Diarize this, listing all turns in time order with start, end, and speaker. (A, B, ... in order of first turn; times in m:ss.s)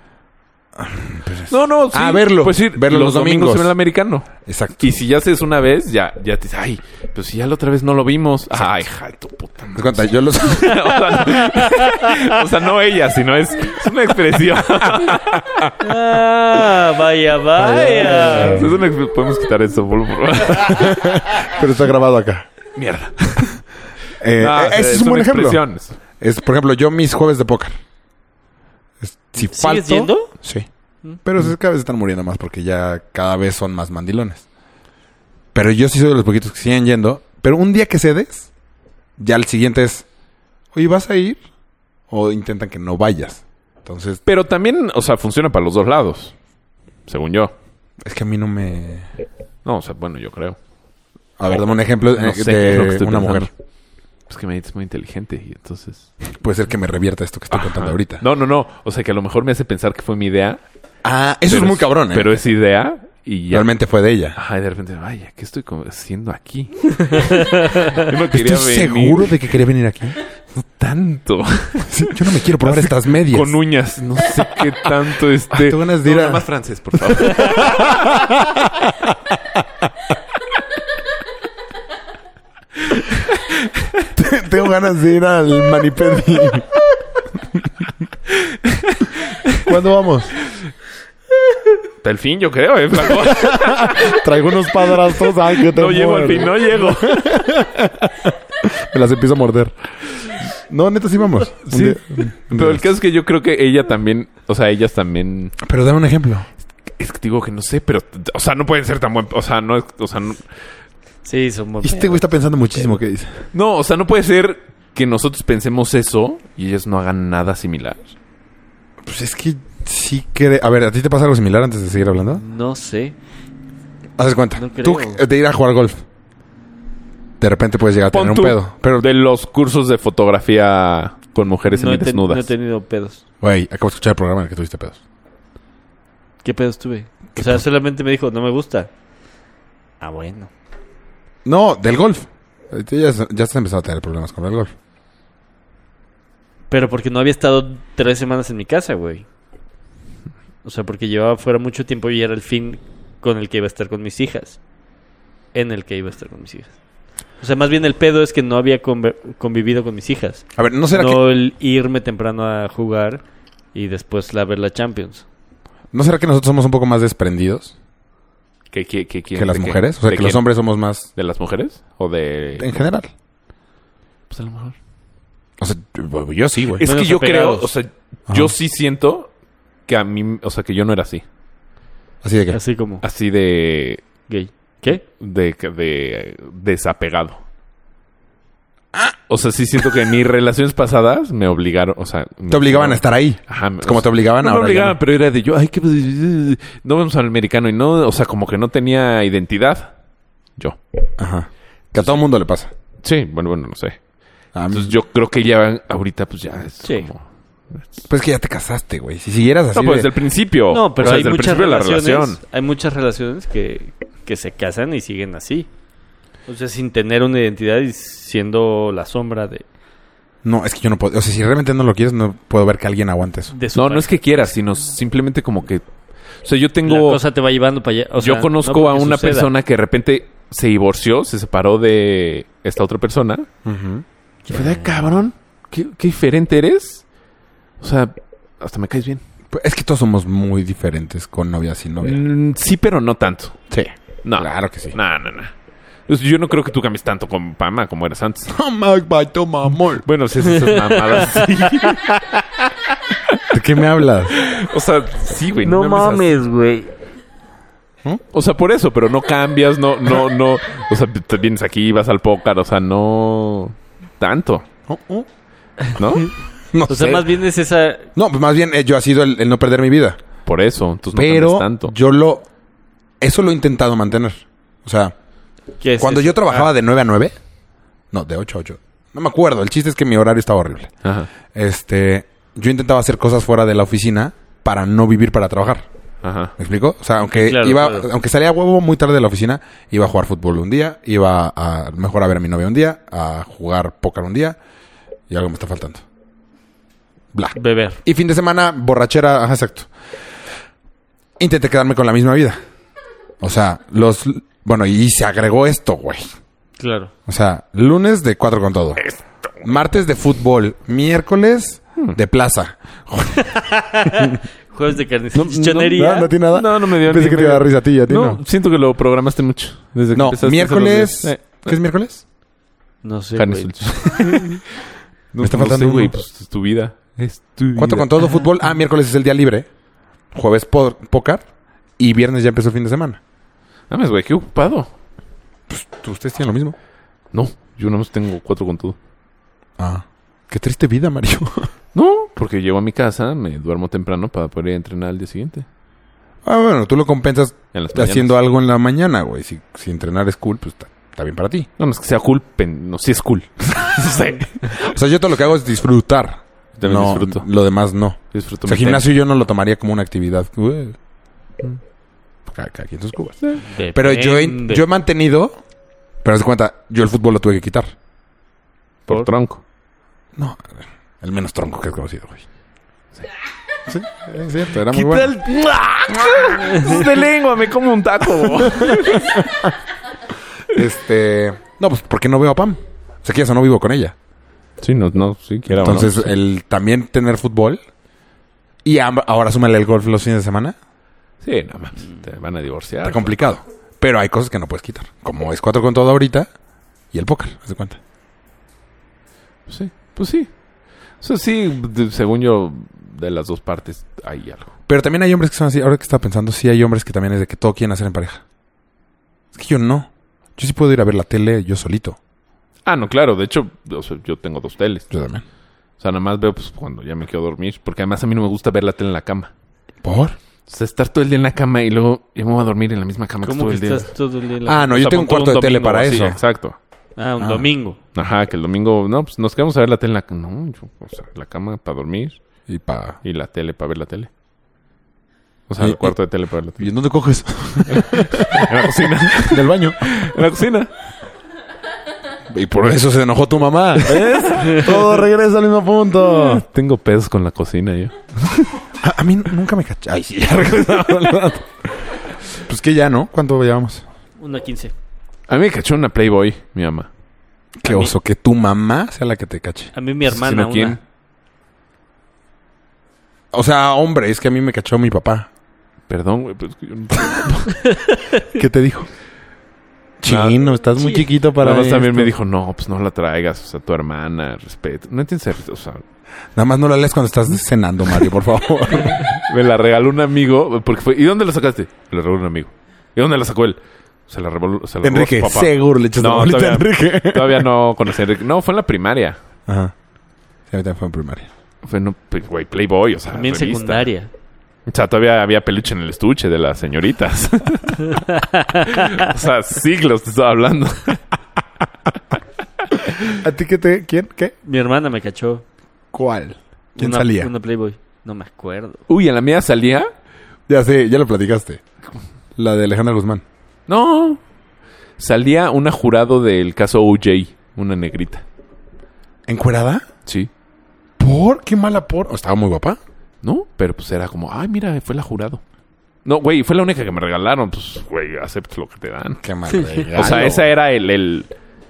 0:00.8-0:03.7 A
0:01.5-0:15.7 B
0:04.4-0:04.9 A
0:09.7-0:10.9 A
0:11.6-0:12.1 C
0:15.8-0:18.6 C
0:17.7-0:18.7 A
0:18.0-0:21.2 B
0:20.7-0:22.5 A
0:22.7-0:23.6 B
0:24.2-0:27.8 A
0:24.4-0:26.0 B
0:29.0-0:30.7 A
0:29.4-0:30.3 C
0:31.2-0:34.4 A
0:35.5-0:38.5 A
0:39.2-0:40.0 A
0:40.7-0:41.4 A
0:42.1-0:44.2 A
0:44.2-0:46.3 B
0:47.1-0:47.5 B
0:48.0-0:49.1 A
0:49.6-0:50.6 B
0:51.4-0:53.5 A
0:52.1-0:53.5 B
0:54.3-0:56.1 B
0:56.3-0:58.2 A
0:57.5-1:00.6 B
1:01.0-1:02.4 A
1:01.5-1:03.7 B
1:03.5-1:04.4 A
1:04.3-1:09.3 B
1:07.3-1:07.8 C
1:08.3-1:10.2 A
1:10.6-1:18.0 B
1:11.9-1:13.6 A
1:15.5-1:16.4 A
1:17.0-1:19.6 A
1:23.1-1:23.7 B
1:24.1-1:26.7 A
1:28.4-1:29.6 B
1:29.6-1:30.3 A
1:32.0-1:34.2 B
1:33.1-1:39.7 A
1:35.5-1:37.4 B
1:40.4-1:42.8 A
1:41.6-1:45.6 B
1:45.6-1:46.5 A
1:47.0-1:50.4 B
1:51.2-1:52.2 C
1:51.8-1:53.4 A
1:53.5-1:58.1 B
1:59.0-2:02.4 A
2:02.3-2:03.1 C
2:04.2-2:06.0 A
2:04.6-2:05.2 C
2:07.4-2:09.0 A
2:08.1-2:12.5 B
2:11.7-2:13.2 C
2:13.4-2:15.0 A
2:16.4-2:18.9 C
2:17.4-2:17.6 A
2:20.0-2:20.5 C
2:21.4-2:24.7 A
2:26.7-2:29.2 C
2:30.6-2:34.6 C
2:35.5-2:36.8 C
2:37.4-2:43.2 C
2:40.6-2:41.2 A
2:43.7-2:45.2 C
2:45.9-2:47.7 A
2:48.7-2:50.5 B
2:49.3-2:51.1 A
2:51.1-2:52.7 B
2:52.6-2:53.1 A
2:54.3-2:54.8 B
2:55.6-2:56.8 A
2:56.8-2:59.3 B
2:56.8-2:57.7 C
2:58.3-2:58.5 A
2:59.9-3:01.2 B
3:02.2-3:02.6 A
3:02.5-3:03.0 C
3:03.0-3:04.0 B
3:04.3-3:05.0 C
3:05.0-3:07.4 B
3:09.3-3:19.9 B
3:12.5-3:15.0 A
3:21.2-3:22.7 A
3:23.0-3:24.0 B
3:24.5-3:24.9 A
3:24.7-3:27.2 B
3:28.1-3:30.1 A
3:29.7-3:32.4 B
3:30.7-3:35.7 C
3:36.5-3:39.6 C
3:40.4-3:43.5 A
3:43.5-3:44.5 C
3:43.7-3:45.8 B
3:46.4-3:47.2 B
3:46.8-3:49.5 C
3:48.2-3:53.5 B
3:53.6-3:54.0 A
3:54.5-3:54.9 C
3:54.5-3:57.0 B
3:57.8-3:59.2 B
3:59.5-4:02.2 A
4:02.0-4:03.6 B
4:03.7-4:05.0 A
4:04.2-4:05.5 B
4:06.1-4:08.5 B
4:08.5-4:10.0 A
4:10.0-4:12.2 B
4:10.6-4:12.2 C
4:13.5-4:14.4 A
4:14.3-4:16.4 B
4:15.6-4:16.9 C
4:18.3-4:24.6 B
4:24.9-4:25.3 A
4:26.0-4:26.3 B
4:26.7-4:27.2 A
4:26.9-4:28.1 C
4:28.2-4:30.2 A
4:30.4-4:31.9 B
4:31.1-4:32.4 A
4:33.2-4:35.1 A
4:35.8-4:36.7 C
4:36.0-4:37.4 A
4:38.1-4:40.9 A
4:41.0-4:41.3 B
4:41.5-4:45.9 A
4:46.2-4:46.5 B
4:46.6-4:54.6 A
4:47.3-4:48.1 C
4:55.3-4:56.0 A
4:57.3-4:59.9 A
4:57.5-4:58.0 C
5:01.4-5:02.6 A
5:03.4-5:06.2 A
5:06.8-5:07.1 C
5:07.3-5:09.0 A
5:09.6-5:13.6 A
5:13.6-5:16.3 C
5:15.3-5:21.8 B
5:15.9-5:18.4 A
5:20.1-5:22.2 A
5:23.0-5:24.6 C
5:23.3-5:24.6 B
5:25.3-5:28.1 B
5:25.4-5:26.1 A
5:27.8-5:29.7 A
5:30.3-5:31.4 A
5:32.0-5:33.2 A
5:33.9-5:34.9 B
5:35.7-5:36.8 A
5:37.3-5:39.0 B
5:39.8-5:41.7 A
5:41.9-5:45.6 B
5:46.4-5:51.7 A
5:47.7-5:48.4 B
5:51.8-5:54.9 B
5:54.8-6:01.0 A
5:56.8-5:57.5 B
5:58.3-5:59.1 B
6:02.4-6:05.6 A
6:03.7-6:04.8 C
6:06.2-6:07.9 A
6:09.1-6:09.6 B
6:10.3-6:12.4 A
6:13.9-6:15.3 A
6:14.9-6:19.4 B
6:16.7-6:17.0 C
6:18.6-6:19.6 A
6:20.7-6:24.1 A
6:24.8-6:26.3 B
6:25.7-6:27.8 A
6:28.8-6:30.8 A
6:31.4-6:33.5 B
6:33.0-6:36.5 A
6:37.1-6:38.0 A
6:39.7-6:40.5 B
6:41.2-6:44.7 B
6:44.9-6:48.4 A
6:49.5-6:52.2 A
6:52.8-6:55.1 B
6:55.1-6:55.4 A
6:56.0-6:59.5 B
7:00.0-7:00.4 A
7:00.7-7:04.1 B
7:03.4-7:05.7 C
7:04.6-7:06.4 A
7:05.4-7:06.8 B
7:07.2-7:08.0 C
7:07.4-7:07.7 A
7:08.1-7:12.4 B
7:12.7-7:13.2 A
7:13.2-7:14.3 B
7:15.7-7:16.9 B
7:15.8-7:16.2 A
7:16.8-7:20.2 A
7:17.9-7:20.9 B
7:22.5-7:26.6 A
7:24.0-7:25.0 B
7:26.2-7:28.8 B
7:29.0-7:34.0 A
7:34.4-7:34.9 C
7:35.5-7:37.1 B
7:37.8-7:39.9 A
7:39.9-7:41.0 C
7:40.2-7:41.0 B
7:43.5-7:45.5 A
7:46.1-7:47.9 B
7:48.5-7:49.1 A
7:50.2-7:52.3 A
7:50.2-7:50.6 B
7:51.6-7:56.0 B
7:56.6-7:59.3 A
7:59.2-8:09.4 B
8:05.0-8:07.7 A
8:09.7-8:09.9 A
8:10.7-8:11.5 A
8:11.8-8:14.1 B
8:13.3-8:14.3 C
8:14.9-8:21.2 B
8:23.4-8:24.5 A
8:24.6-8:25.6 C
8:26.1-8:27.5 A
8:27.0-8:29.0 C
8:29.1-8:30.1 B
8:30.7-8:31.8 A
8:32.5-8:33.4 A
8:33.9-8:34.4 B
8:35.2-8:38.4 B
8:39.5-8:40.0 A
8:41.2-8:43.0 A
8:43.4-8:45.6 B
8:46.2-8:49.4 B
8:49.4-8:50.7 A
8:49.7-8:50.1 C
8:50.1-8:51.5 B